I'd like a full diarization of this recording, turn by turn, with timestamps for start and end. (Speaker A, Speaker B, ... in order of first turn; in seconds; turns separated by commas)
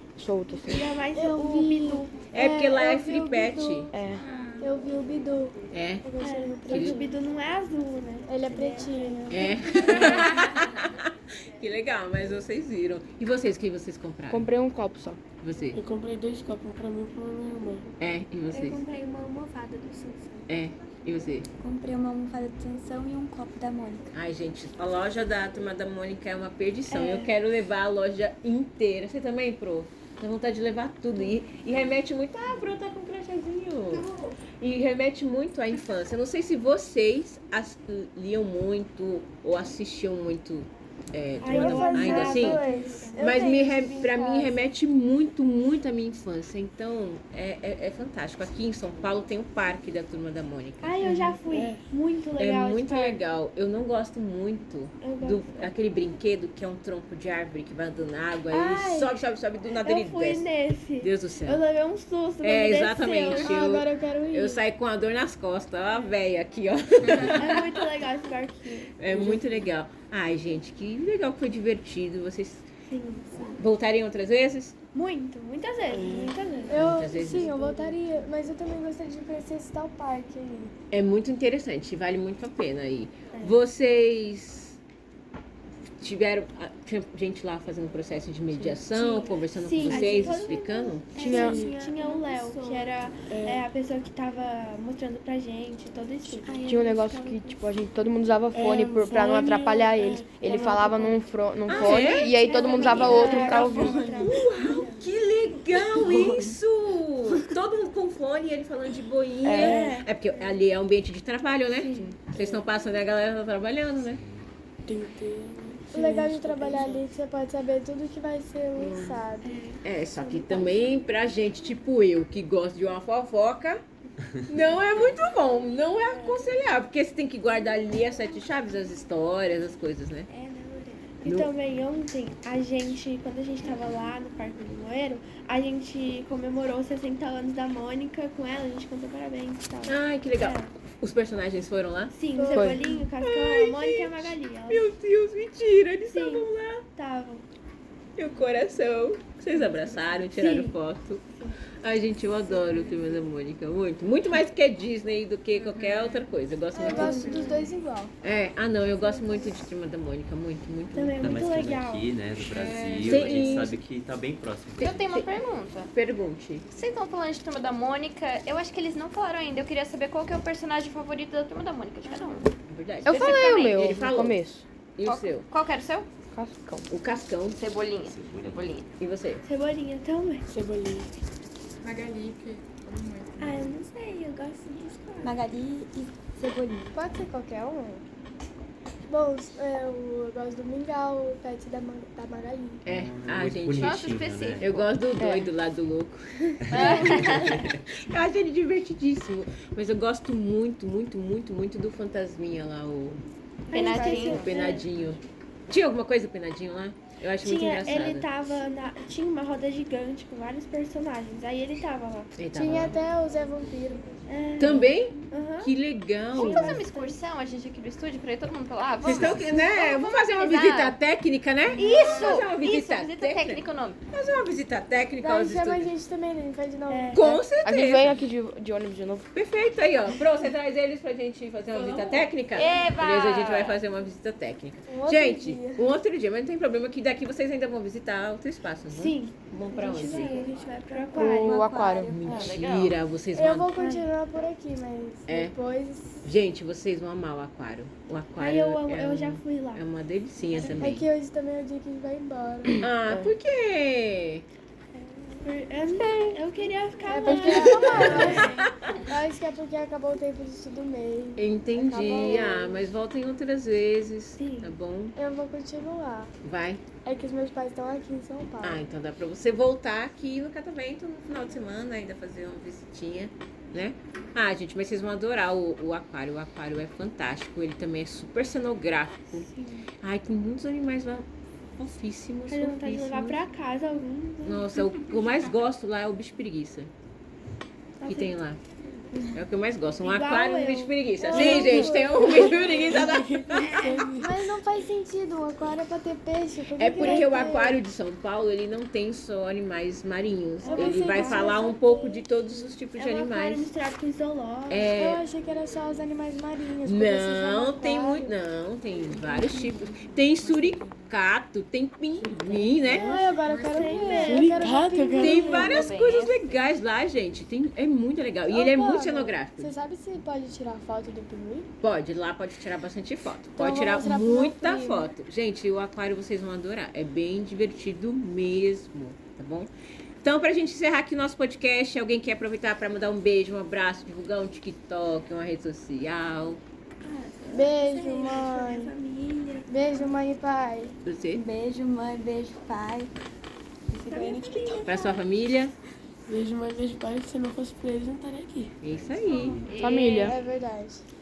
Speaker A: 0.2-0.8, Speaker B: 0.6-2.3, Speaker C: 1.1-4.0, Speaker D: 2.3-3.9, Speaker A: 3.9-4.2, Speaker E: 4.2-4.7, Speaker C: 4.6-7.2, Speaker D: 5.7-6.1, Speaker B: 6.2-10.2, Speaker D: 6.7-7.0, Speaker C: 8.3-10.3, Speaker D: 9.3-14.5, Speaker A: 14.3-15.2, Speaker D: 15.4-15.8, Speaker F: 15.7-17.9, Speaker D: 18.0-18.8, Speaker B: 18.5-20.3, Speaker D: 20.5-21.5, Speaker G: 21.6-24.0, Speaker D: 24.1-50.9, Speaker B: 26.9-27.3, Speaker B: 41.4-44.5, Speaker C: 41.5-44.5, Speaker B: 50.8-53.2, Speaker F: 51.1-51.9, Speaker D: 52.4-61.6, Speaker B: 55.0-55.7, Speaker B: 58.5-59.2, Speaker B: 59.8-63.6, Speaker D: 62.4-67.7, Speaker C: 63.3-64.6, Speaker B: 67.3-69.0, Speaker D: 69.0-72.7, Speaker F: 69.1-69.5, Speaker B: 72.9-73.6, Speaker D: 73.6-74.8, Speaker B: 74.9-77.5, Speaker F: 75.9-76.4, Speaker C: 76.7-80.7, Speaker D: 76.8-77.5, Speaker F: 77.1-77.9, Speaker D: 80.9-84.8, Speaker B: 83.3-83.6, Speaker D: 86.0-91.1, Speaker F: 88.5-88.8, Speaker B: 88.9-97.5, Speaker F: 91.2-91.8, Speaker A: 91.2-91.6, Speaker F: 93.3-93.7, Speaker C: 96.5-97.0, Speaker A: 96.7-104.1, Speaker F: 98.5-101.3, Speaker B: 101.7-105.1, Speaker D: 101.7-102.4, Speaker F: 102.8-104.2, Speaker C: 103.0-103.7, Speaker D: 104.2-114.2, Speaker F: 105.9-106.6, Speaker A: 109.4-109.8, Speaker F: 109.5-110.0, Speaker B: 109.7-110.1, Speaker F: 112.2-112.6, Speaker F: 114.9-117.0, Speaker C: 115.9-119.6, Speaker F: 118.8-119.2, Speaker B: 119.5-121.0, Speaker D: 119.8-123.8, Speaker D: 124.5-130.3, Speaker B: 126.1-126.6, Speaker B: 130.3-140.7, Speaker D: 131.2-131.5, Speaker D: 139.8-142.2, Speaker B: 142.1-144.9, Speaker C: 142.4-142.7, Speaker A: 142.5-142.8, Speaker D: 143.2-146.8, Speaker B: 146.1-147.5, Speaker D: 148.2-151.2, Speaker B: 150.3-150.8, Speaker D: 151.8-157.4, Speaker B: 152.6-153.0, Speaker E: 155.6-157.7, Speaker C: 156.8-158.1, Speaker B: 156.9-157.3, Speaker D: 158.2-161.4, Speaker B: 160.9-162.2, Speaker H: 161.2-165.0, Speaker I: 162.3-163.7, Speaker D: 163.0-163.8, Speaker I: 164.8-165.9, Speaker D: 164.8-166.7, Speaker I: 166.7-172.5, Speaker B: 172.0-172.5, Speaker D: 172.7-174.5, Speaker A: 173.1-174.7, Speaker I: 173.1-173.8, Speaker D: 175.0-175.5, Speaker I: 175.0-176.1, Speaker A: 176.3-176.9, Speaker D: 176.9-177.6, Speaker I: 177.6-178.9, Speaker H: 178.1-178.7, Speaker D: 179.0-179.4, Speaker B: 179.4-180.4, Speaker F: 180.5-181.2, Speaker E: 181.8-183.7, Speaker B: 183.4-185.3, Speaker G: 185.2-186.9, Speaker C: 186.9-188.0, Speaker C: 189.1-192.8, Speaker H: 192.9-195.0, Speaker D: 192.9-203.2, Speaker I: 193.8-194.7, Speaker A: 195.2-195.5, Speaker I: 196.7-197.6, Speaker H: 196.7-197.7, Speaker B: 197.0-197.2, Speaker I: 203.7-204.6, Speaker B: 203.7-204.9, Speaker C: 203.7-204.4, Speaker D: 204.3-208.3, Speaker B: 207.4-212.3, Speaker D: 212.4-213.0, Speaker C: 212.5-214.1, Speaker B: 214.3-215.7, Speaker D: 214.6-216.8, Speaker I: 216.3-221.0, Speaker C: 216.6-217.1, Speaker D: 219.0-225.9, Speaker I: 221.8-224.0, Speaker B: 221.8-222.4, Speaker C: 225.2-227.2, Speaker B: 226.9-227.3, Speaker D: 227.1-228.2, Speaker A: 227.2-229.3, Speaker D: 229.3-240.5, Speaker I: 232.5-233.8, Speaker C: 234.9-235.9, Speaker B: 238.9-241.6, Speaker I: 240.1-240.6, Speaker C: 240.9-242.2, Speaker A: 241.1-242.1, Speaker I: 241.4-243.0, Speaker D: 242.2-243.8, Speaker C: 243.3-246.2, Speaker B: 243.8-244.1, Speaker D: 245.3-245.6, Speaker D: 246.2-251.1, Speaker B: 248.4-249.8, Speaker C: 250.6-252.8, Speaker D: 252.8-254.4, Speaker A: 253.1-253.3, Speaker C: 255.2-255.5, Speaker B: 255.4-258.7, Speaker C: 257.1-262.9, Speaker A: 257.2-257.7, Speaker D: 257.7-258.6, Speaker D: 261.4-265.2, Speaker B: 264.4-264.7, Speaker C: 265.1-266.3, Speaker D: 266.4-266.8, Speaker C: 267.1-268.8, Speaker D: 268.6-279.5, Speaker B: 279.4-279.9, Speaker D: 280.0-281.3, Speaker D: 281.8-283.4, Speaker B: 282.5-284.8, Speaker D: 284.4-286.9, Speaker E: 285.1-285.4, Speaker B: 288.0-288.3, Speaker D: 288.1-288.6, Speaker D: 289.3-293.8, Speaker B: 290.0-292.0, Speaker C: 291.2-292.6, Speaker F: 291.3-294.6, Speaker B: 292.6-293.0, Speaker C: 294.0-297.8, Speaker D: 296.8-303.7, Speaker B: 297.0-297.3, Speaker C: 300.6-302.3, Speaker B: 300.7-301.7, Speaker B: 303.0-304.9, Speaker D: 304.7-305.2, Speaker C: 305.0-308.4, Speaker D: 306.8-313.2, Speaker F: 312.9-313.2, Speaker C: 312.9-315.6, Speaker E: 313.4-314.3, Speaker B: 313.6-314.9, Speaker F: 314.2-315.9, Speaker D: 315.2-319.7, Speaker I: 315.6-316.6, Speaker C: 318.5-321.7, Speaker D: 321.8-329.7, Speaker C: 323.6-325.1, Speaker D: 330.2-336.6, Speaker B: 337.0-340.2, Speaker C: 337.5-338.9, Speaker C: 339.7-341.0, Speaker D: 341.0-341.4, Speaker G: 341.3-343.1, Speaker B: 343.9-345.3, Speaker F: 344.0-344.6, Speaker D: 344.8-345.7, Speaker F: 346.3-348.7, Speaker D: 348.8-349.7, Speaker H: 348.9-349.8, Speaker I: 349.6-350.3, Speaker A: 349.8-350.4, Speaker C: 350.1-351.0